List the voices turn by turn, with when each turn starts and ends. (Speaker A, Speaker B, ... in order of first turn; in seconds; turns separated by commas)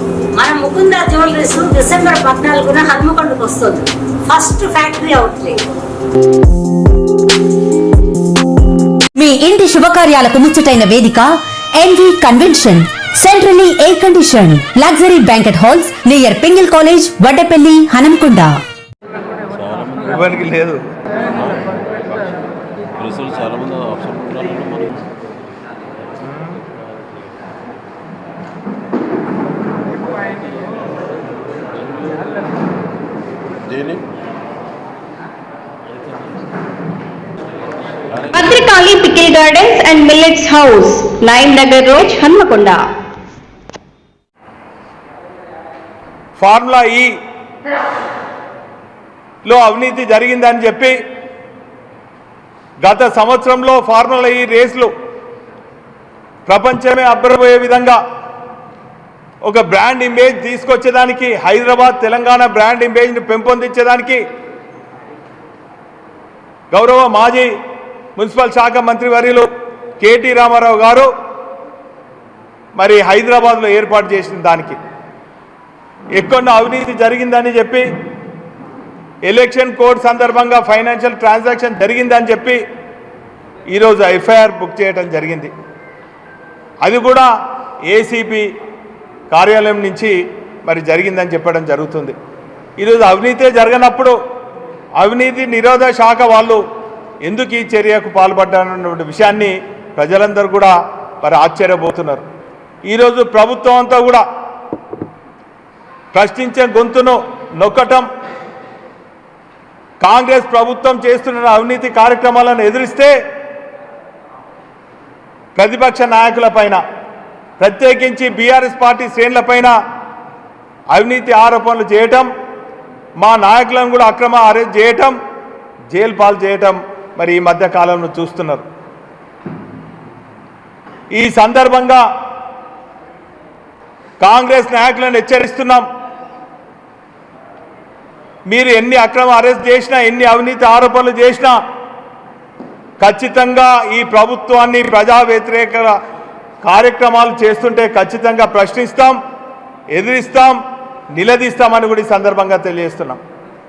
Speaker A: 0.3-5.7, Speaker B: 9.2-18.6, Speaker C: 19.7-20.0, Speaker D: 20.1-20.8, Speaker C: 23.1-24.9, Speaker C: 33.8-34.0, Speaker E: 38.3-42.8, Speaker D: 46.4-47.1, Speaker D: 49.4-50.9, Speaker D: 52.8-54.9, Speaker D: 56.5-58.0, Speaker D: 59.4-64.2, Speaker D: 66.7-67.5, Speaker D: 68.2-69.5, Speaker D: 70.0-71.1, Speaker D: 72.8-74.8, Speaker D: 76.1-77.8, Speaker D: 79.2-82.6, Speaker D: 83.7-85.5, Speaker D: 86.8-87.3, Speaker D: 87.9-88.5, Speaker D: 89.3-92.1, Speaker D: 92.8-94.1, Speaker D: 95.0-96.6, Speaker D: 97.2-102.2, Speaker D: 102.9-104.2, Speaker D: 106.1-108.1, Speaker D: 110.0-113.1, Speaker D: 115.5-116.8, Speaker D: 117.6-119.7, Speaker D: 120.9-122.3, Speaker D: 123.2-125.2, Speaker D: 125.9-128.6, Speaker D: 131.1-132.0, Speaker D: 134.2-135.8, Speaker D: 138.5-141.6, Speaker D: 143.0-145.9, Speaker D: 146.6-149.2, Speaker D: 149.9-150.6, Speaker D: 151.1-153.2